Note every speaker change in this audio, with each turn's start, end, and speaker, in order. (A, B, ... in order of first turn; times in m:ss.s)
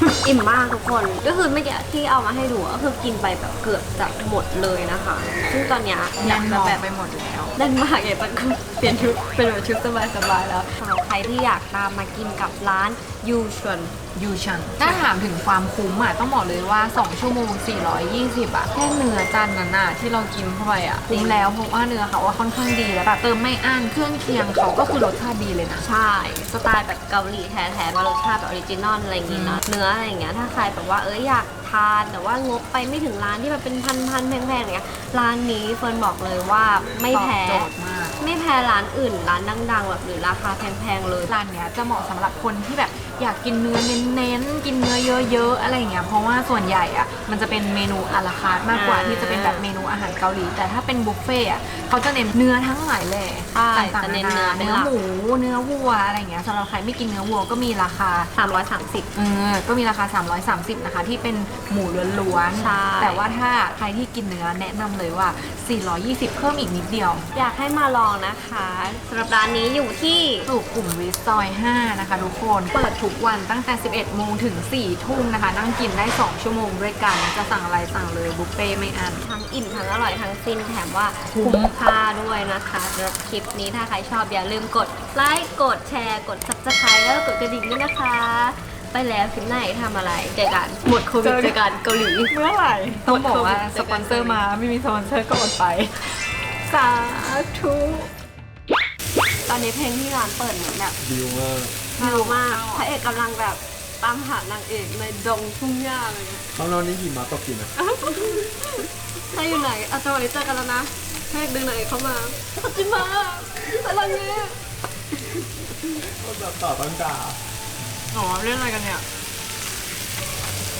0:00.2-0:06.8 A
0:06.2-0:07.6 B
0:07.6-0:13.9 A
0:14.1-0:25.9 B
0:21.1-0:21.5 A
0:25.8-0:41.3 A
0:29.3-0:29.6 B
0:37.1-0:38.2 B
0:41.3-0:58.3 B
0:48.7-0:49.6 A
0:53.5-0:54.9 A
0:58.4-0:59.1 A
0:59.1-1:07.3 B
1:02.5-1:03.2 A
1:07.4-1:10.5 A
1:10.5-1:19.3 B
1:19.2-1:32.3 A
1:21.3-1:21.7 B
1:31.2-1:31.6 B
1:32.3-1:36.2 B
1:33.0-1:34.4 A
1:36.7-1:38.0 A
1:39.5-1:41.0 A
1:41.0-1:41.8 C
1:42.0-1:43.0 B
1:42.0-1:46.5 A
1:46.6-1:47.8 C
1:47.8-1:54.5 A
1:56.2-1:57.4 C
1:58.1-1:59.0 B